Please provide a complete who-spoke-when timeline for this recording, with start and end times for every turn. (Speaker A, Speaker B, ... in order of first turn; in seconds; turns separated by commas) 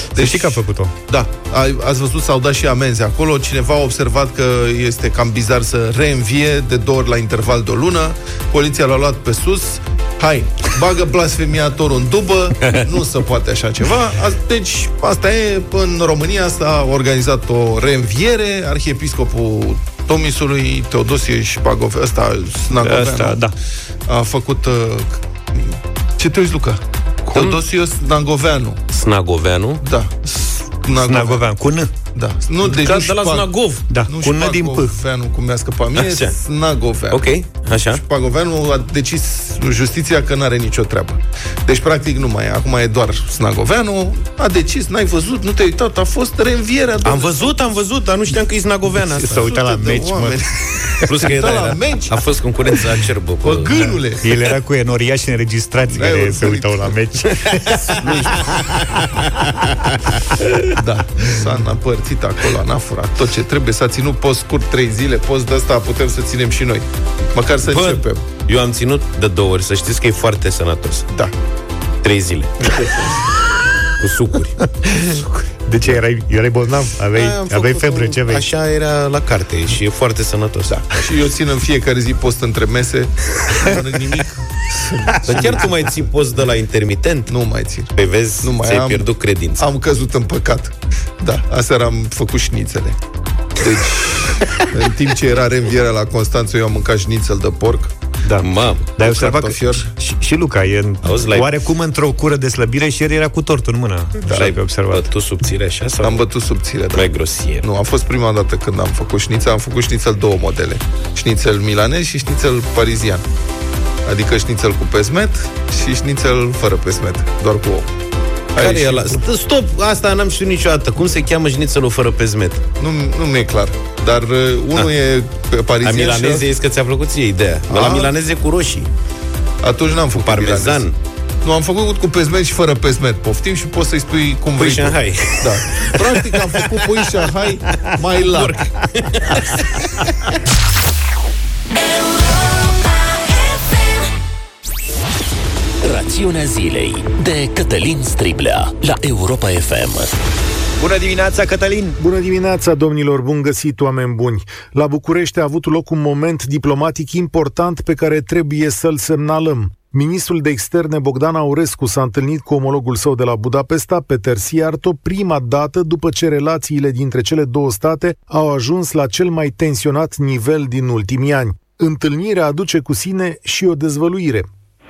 Speaker A: 0.1-23.4, Speaker B: 0.1-0.9, Speaker B: 22.8-23.5, Speaker A: 24.1-28.8, Speaker C: 27.3-27.6, Speaker C: 28.9-29.8, Speaker A: 29.8-31.4, Speaker B: 30.9-31.9, Speaker A: 32.1-33.5, Speaker C: 32.7-33.8, Speaker B: 33.9-34.9, Speaker A: 34.1-37.3, Speaker C: 35.9-36.3, Speaker C: 37.1-38.0, Speaker A: 37.9-47.5, Speaker C: 47.0-49.4, Speaker A: 49.1-52.3, Speaker B: 49.2-50.4, Speaker C: 51.0-54.0, Speaker A: 53.4-54.2, Speaker B: 54.2-58.5, Speaker A: 55.9-56.9, Speaker C: 57.5-59.2, Speaker A: 58.0-58.3, Speaker A: 60.7-68.2, Speaker C: 67.7-71.0, Speaker C: 72.0-72.8, Speaker C: 74.0-74.5, Speaker B: 74.8-78.5, Speaker C: 77.1-80.8, Speaker A: 80.9-85.7, Speaker C: 85.2-87.3, Speaker A: 87.3-89.1, Speaker C: 88.0-89.6, Speaker A: 89.6-93.0, Speaker A: 93.5-97.9, Speaker B: 98.2-105.0, Speaker C: 98.4-98.9, Speaker A: 99.0-99.9, Speaker C: 101.0-101.5, Speaker A: 104.3-104.5, Speaker C: 104.4-106.2, Speaker A: 106.0-107.1, Speaker C: 106.9-107.6, Speaker A: 107.6-113.2, Speaker A: 114.0-117.9, Speaker A: 118.5-119.2, Speaker C: 118.6-122.6, Speaker A: 122.8-126.5, Speaker C: 125.8-128.9, Speaker A: 127.7-128.1, Speaker A: 129.6-130.9, Speaker C: 130.1-130.9, Speaker A: 131.4-138.6, Speaker C: 134.6-137.2, Speaker C: 138.2-139.6, Speaker D: 145.8-150.1, Speaker B: 150.8-152.0, Speaker E: 152.0-174.5